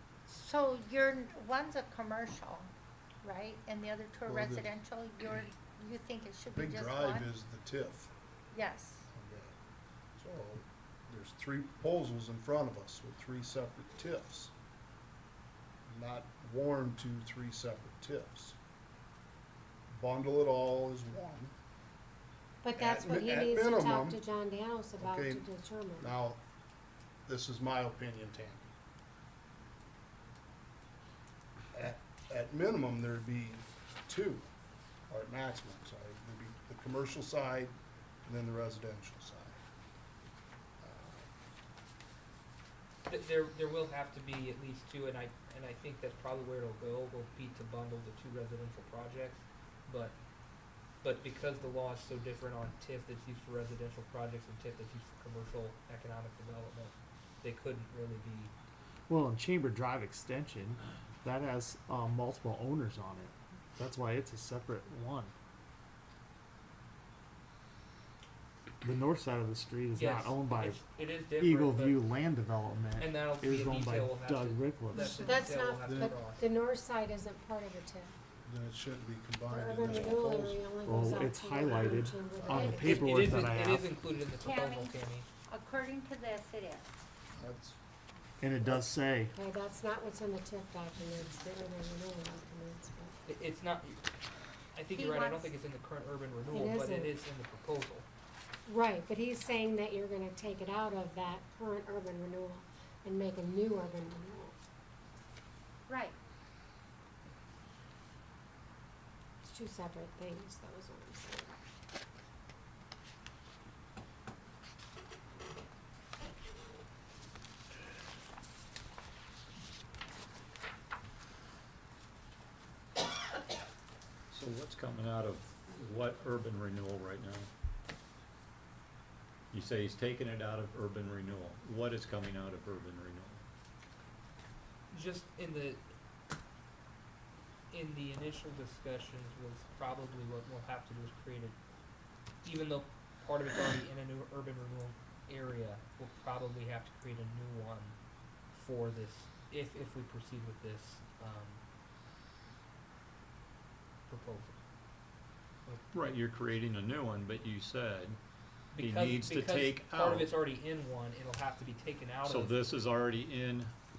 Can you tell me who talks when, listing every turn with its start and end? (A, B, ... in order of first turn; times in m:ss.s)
0:00.3-0:02.7 A
0:03.2-0:07.3 A
0:04.3-0:04.7 B
0:06.5-0:08.1 B
0:08.5-0:09.1 A
0:09.1-0:09.5 B
0:10.2-0:14.5 B
0:15.9-0:18.6 B
0:19.9-0:21.5 B
0:22.6-0:26.1 C
0:22.8-0:24.2 B
0:25.0-0:26.4 B
0:27.2-0:28.7 B
0:31.7-0:34.4 B
0:35.1-0:37.7 B
0:38.2-0:39.6 B
0:40.8-0:41.3 B
0:43.0-0:50.2 D
0:51.0-0:58.5 D
0:59.1-1:05.3 E
1:08.8-1:10.8 E
1:09.9-1:12.0 D
1:11.4-1:15.2 E
1:13.0-1:16.4 D
1:15.0-1:18.1 C
1:15.8-1:16.3 B
1:18.4-1:20.7 B
1:19.5-1:23.3 C
1:20.8-1:23.9 E
1:21.6-1:23.0 B
1:23.0-1:25.2 D
1:24.4-1:25.0 A
1:25.5-1:26.8 A
1:27.3-1:27.8 B
1:28.4-1:29.3 E
1:28.6-1:33.1 C
1:33.2-1:34.0 D
1:34.7-1:38.0 D
1:34.9-1:35.5 A
1:36.4-1:37.1 C
1:38.7-1:44.5 C
1:45.9-1:46.2 A
1:49.4-1:51.6 C
2:04.3-2:07.5 F
2:09.5-2:13.4 F
2:14.9-2:15.8 D
2:17.7-2:21.6 D
2:22.4-2:28.0 D
2:28.5-2:31.6 D
2:34.1-2:34.6 D
2:35.6-2:36.0 D
2:35.9-2:38.2 F
2:38.7-2:42.7 D
2:38.8-2:40.3 F
2:42.2-2:43.7 F